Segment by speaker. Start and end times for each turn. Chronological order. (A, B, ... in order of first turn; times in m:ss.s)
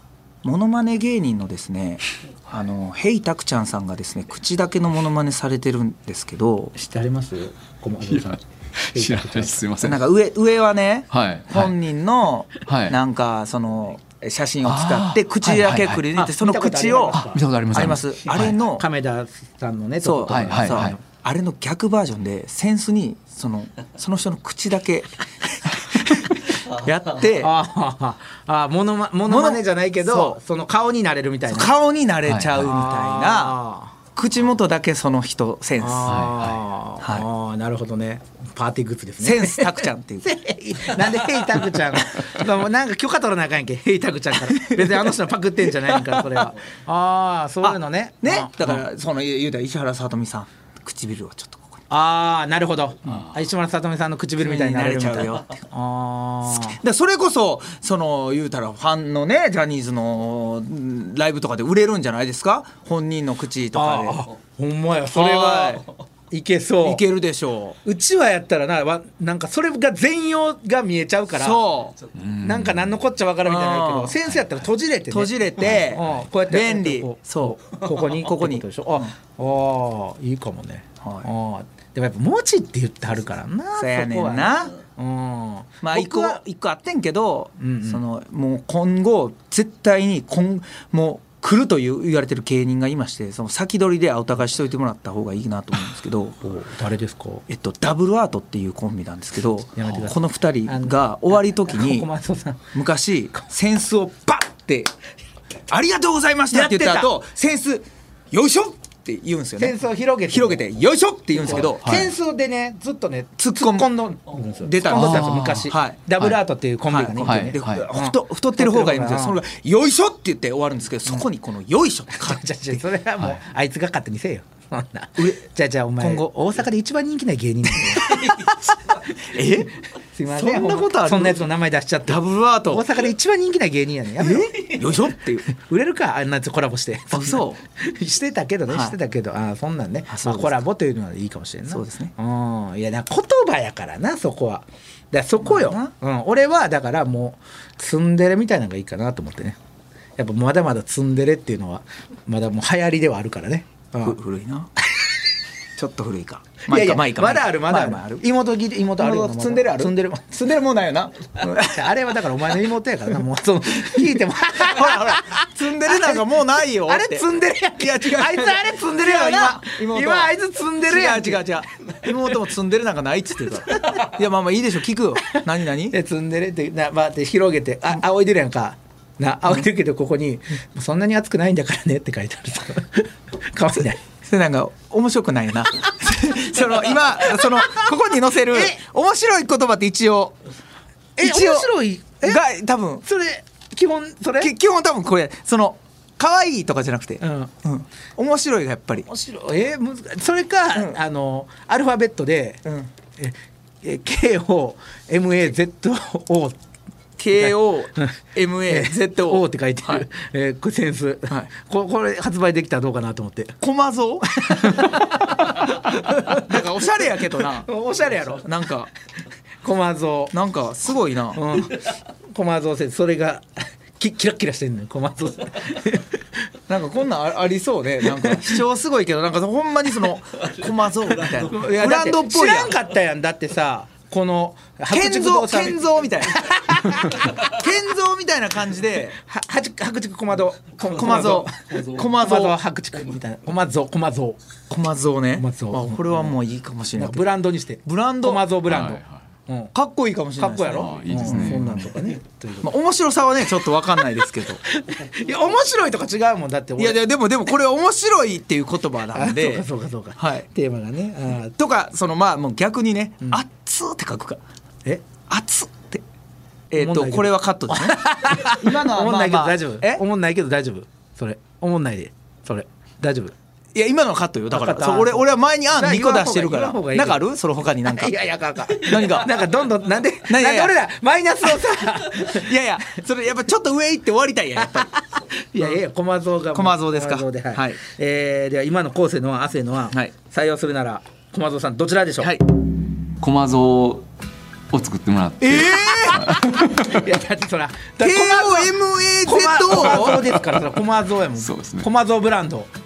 0:00.4-0:06.7 A
0:06.8-0:08.4 B
0:08.1-0:10.0 C
0:08.9-0:09.6 B
0:09.8-0:17.2 A
0:11.1-0:11.7 C
0:12.7-0:13.0 C
0:14.6-0:16.1 C
0:16.2-0:17.4 B
0:17.1-0:18.6 C
0:17.7-0:18.8 A
0:18.3-0:21.0 B
0:20.0-0:27.5 A
0:20.3-0:20.9 C
0:27.4-0:31.7 B
0:29.3-0:30.4 A
0:31.5-0:33.6 A
0:32.3-0:32.7 C
0:32.6-0:33.9 B
0:34.1-0:36.2 A
0:35.8-0:48.8 B
0:36.1-0:36.6 C
0:37.0-0:37.2 A
0:39.2-0:40.3 A
0:44.5-0:45.1 A
0:47.6-0:51.8 A
0:51.9-0:56.8 B
0:54.4-0:55.6 A
0:56.6-1:04.2 A
1:03.7-1:07.0 B
1:05.1-1:05.8 A
1:06.8-1:07.8 A
1:07.8-1:11.6 B
1:11.3-1:12.0 A
1:12.1-1:12.9 C
1:12.4-1:26.4 B
1:13.4-1:14.2 A
1:15.1-1:19.1 A
1:15.6-1:16.2 C
1:21.0-1:21.3 A
1:23.8-1:24.7 A
1:25.8-1:36.4 A
1:27.6-1:28.0 B
1:36.4-1:37.4 B
1:37.5-1:42.1 A
1:39.8-1:42.7 B
1:42.7-1:44.9 A
1:45.7-1:49.8 A
1:46.5-1:47.1 B
1:49.6-1:50.6 B
1:50.3-1:51.9 A
1:51.4-1:59.4 B
1:51.8-1:52.1 C
1:53.4-1:53.9 A
1:54.6-1:56.0 A
1:54.9-1:55.7 C
1:56.9-2:02.8 A
1:57.2-1:57.9 C
2:02.2-2:08.6 B
2:06.0-2:06.3 A
2:07.8-2:08.5 A
2:09.3-2:09.7 A
2:10.1-2:29.6 B
2:10.3-2:11.4 A
2:12.1-2:13.0 A
2:14.2-2:15.5 A
2:17.1-2:17.6 A
2:18.7-2:18.9 A
2:20.1-2:20.6 A
2:21.7-2:22.1 A
2:25.4-2:25.9 A
2:30.2-2:34.2 B
2:34.0-2:34.7 A
2:35.8-2:38.2 A
2:36.7-2:40.3 B
2:39.0-2:41.9 A
2:41.4-2:46.2 B
2:44.6-2:55.9 A
2:46.8-2:51.5 B
2:55.9-3:04.0 B
3:04.2-3:10.3 A
3:08.5-3:08.8 B
3:11.2-3:11.7 A
3:11.2-3:12.4 B
3:12.2-3:13.0 A
3:13.0-3:14.5 B
3:14.4-3:19.1 A
3:17.2-3:17.5 B
3:19.0-3:22.6 B
3:23.2-3:26.6 B
3:27.2-3:30.0 A
3:27.4-3:28.1 B
3:28.7-3:33.6 B
3:33.6-3:37.7 A
3:34.4-3:36.4 B
3:37.6-3:38.4 B
3:38.4-3:38.9 A
3:39.6-3:40.3 B
3:40.3-3:41.4 A
3:41.3-3:43.5 B
3:44.0-3:46.1 B
3:46.7-3:52.8 A
3:48.2-3:48.6 B
3:51.4-3:57.5 B
3:54.9-3:56.6 A
3:57.2-3:59.2 A
3:59.3-4:04.4 B
4:00.9-4:02.6 A
4:04.7-4:07.3 A
4:05.4-4:06.3 B
4:07.0-4:09.7 B
4:07.8-4:08.4 A
4:08.7-4:09.2 C
4:09.7-4:14.6 A
4:10.4-4:12.7 B
4:10.8-4:11.7 C
4:14.7-4:17.0 B
4:16.8-4:19.6 A
4:19.1-4:21.5 B
4:20.2-4:20.4 A
4:21.6-4:24.4 A
4:25.3-4:26.0 A
4:26.7-4:30.0 A
4:26.8-4:33.3 B
4:33.7-4:38.2 A
4:34.5-4:37.2 B
4:37.9-4:42.5 B
4:38.8-4:39.4 A
4:40.3-4:40.8 A
4:42.0-4:44.9 A
4:45.5-4:52.3 B
4:46.5-4:47.8 A
4:53.2-4:54.0 C
4:54.7-4:57.0 C
4:55.4-4:56.3 A
4:56.7-5:02.7 B
4:58.0-5:00.2 A
5:01.4-5:01.9 C